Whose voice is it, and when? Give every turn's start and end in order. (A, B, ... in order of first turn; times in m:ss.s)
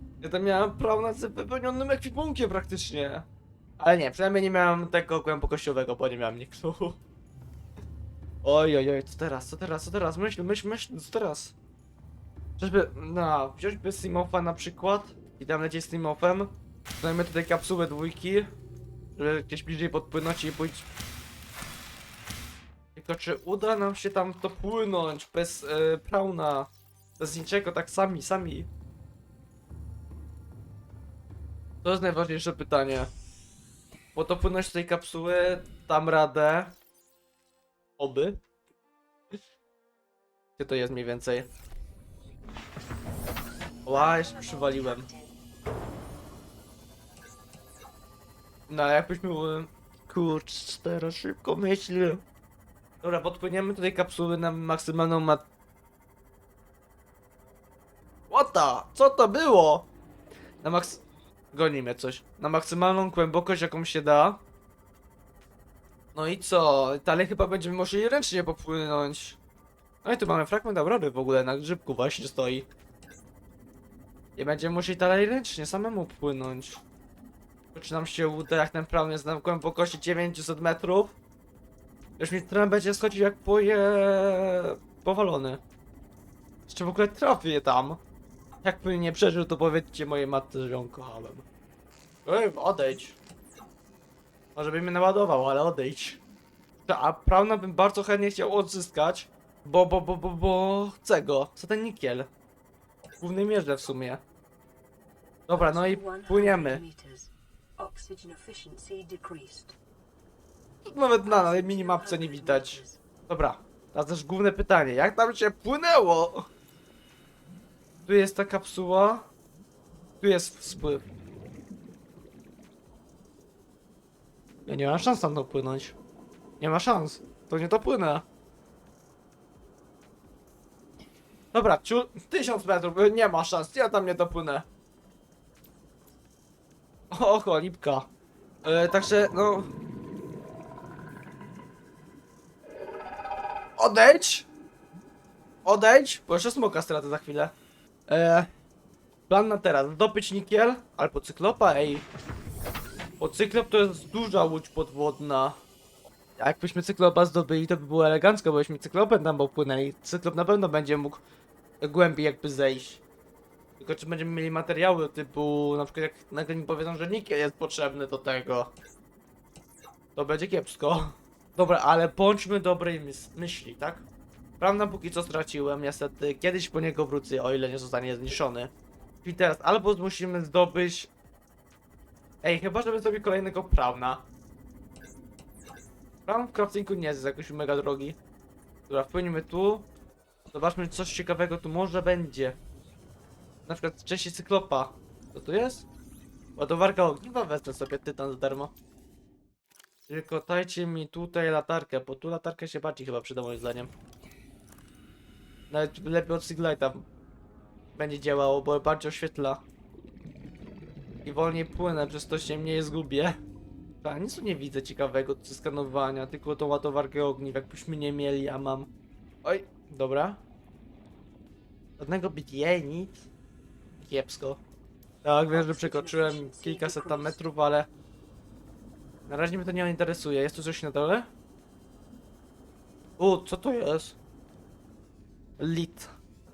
0:00.2-0:03.2 A
0:03.8-0:07.0 A
0:08.4-0:11.5 A
0:12.6-0:18.5 A
0:19.2-0:20.9 A
0:22.9-0:28.7 A
0:31.8-0:33.1 A
0:34.1-0:36.7 A
0:38.0-0:38.4 A
0:40.6-0:41.5 A
0:43.8-0:45.1 A
0:43.9-0:45.3 B
0:48.7-0:52.2 A
0:53.0-0:55.4 A
0:58.3-0:59.9 A
1:00.6-1:04.4 A
1:06.1-1:09.4 A
1:10.0-1:12.7 A
1:14.4-1:16.8 A
1:17.7-1:21.2 A
1:22.2-1:25.6 A
1:26.7-1:28.0 A
1:28.6-1:31.4 A
1:32.2-1:33.2 A
1:34.5-1:36.2 A
1:36.8-1:42.3 A
1:43.2-1:44.2 A
1:45.5-1:46.8 A
1:45.5-1:49.8 B
1:50.8-1:56.5 A
1:51.2-1:53.0 B
1:58.0-1:59.3 A
2:00.2-2:01.0 A
2:04.7-2:06.0 A
2:06.6-2:08.2 A
2:11.5-2:14.6 A
2:17.1-2:18.1 A
2:18.6-2:19.7 A
2:23.8-2:24.5 A
2:25.6-2:27.5 A
2:28.1-2:28.5 A
2:29.3-2:32.0 A
2:33.2-2:35.6 A
2:36.4-2:41.2 A
2:41.8-2:43.0 A
2:43.8-2:48.7 A
2:50.1-2:54.0 A
2:54.6-2:58.7 A
2:59.2-3:01.1 A
3:02.4-3:04.2 A
3:06.2-3:08.2 A
3:08.9-3:09.9 A
3:10.5-3:12.6 A
3:13.6-3:15.8 A
3:16.6-3:18.7 A
3:20.1-3:23.9 A
3:25.7-3:27.0 A
3:28.0-3:29.6 A
3:31.2-3:33.4 A
3:34.0-3:38.9 A
3:39.4-3:40.4 A
3:42.0-3:43.3 A
3:44.0-3:44.6 A
3:45.2-3:47.9 A
3:45.5-3:47.4 B
3:49.3-3:51.3 A
3:53.2-3:54.2 A
3:55.6-3:56.1 A